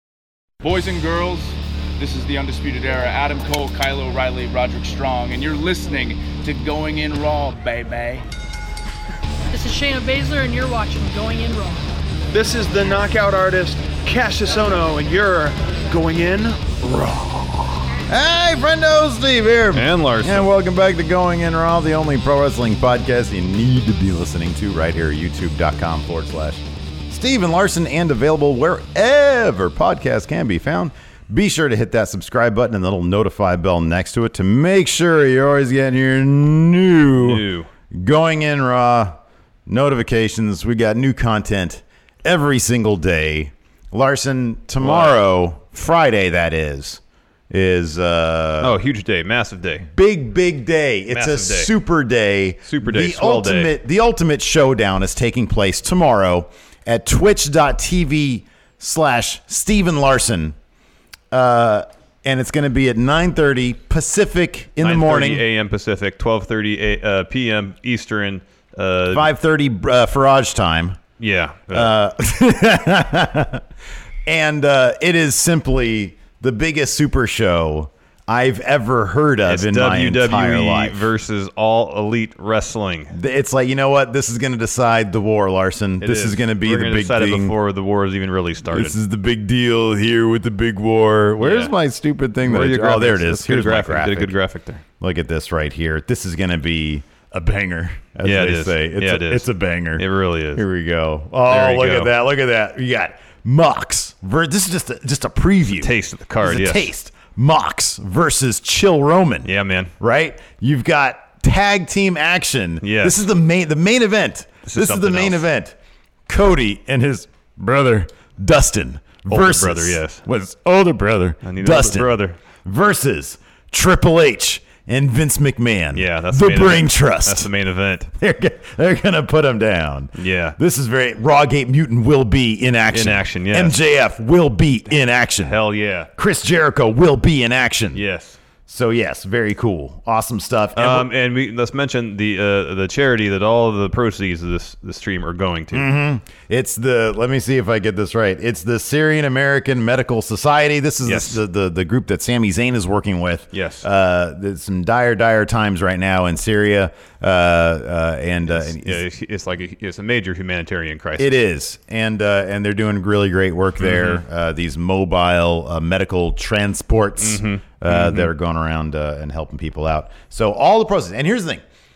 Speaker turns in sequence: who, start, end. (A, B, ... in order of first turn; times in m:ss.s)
0:00.6-0:08.2 A
0:09.5-0:11.8 B
0:12.3-0:16.7 C
0:16.8-0:48.8 D
0:19.7-0:20.5 E
0:37.2-0:37.7 E
0:44.8-0:45.2 E
0:48.6-0:49.9 E
0:49.9-1:00.6 D
0:51.1-0:51.7 E
0:52.6-0:53.7 E
1:01.3-1:05.4 D
1:04.8-1:09.3 E
1:09.1-1:11.0 D
1:11.2-1:11.9 E
1:11.7-1:13.6 D
1:14.2-1:21.1 D
1:19.4-1:23.2 E
1:23.1-1:27.6 D
1:26.0-1:29.0 E
1:28.7-1:34.4 D
1:31.4-1:31.7 E
1:32.4-1:34.8 E
1:35.0-1:55.8 D
1:38.2-1:40.6 E
1:41.5-1:42.1 E
1:45.8-1:46.9 E
1:49.4-1:49.9 E
1:52.8-1:53.2 E
1:54.7-1:55.4 E
1:56.3-2:07.5 D
1:59.3-2:00.2 E
2:01.4-2:02.4 E
2:05.9-2:08.1 E
2:08.1-2:15.6 D
2:10.2-2:10.6 E
2:12.9-2:13.8 E
2:15.4-2:16.1 E
2:16.2-2:18.0 D
2:17.9-2:18.4 E
2:18.7-2:21.1 D
2:20.8-2:25.9 E
2:25.7-2:39.0 D
2:31.0-2:31.4 E
2:33.5-2:33.9 E
2:38.5-2:41.3 E
2:41.2-2:51.6 D
2:43.8-2:44.2 E
2:47.2-2:48.3 E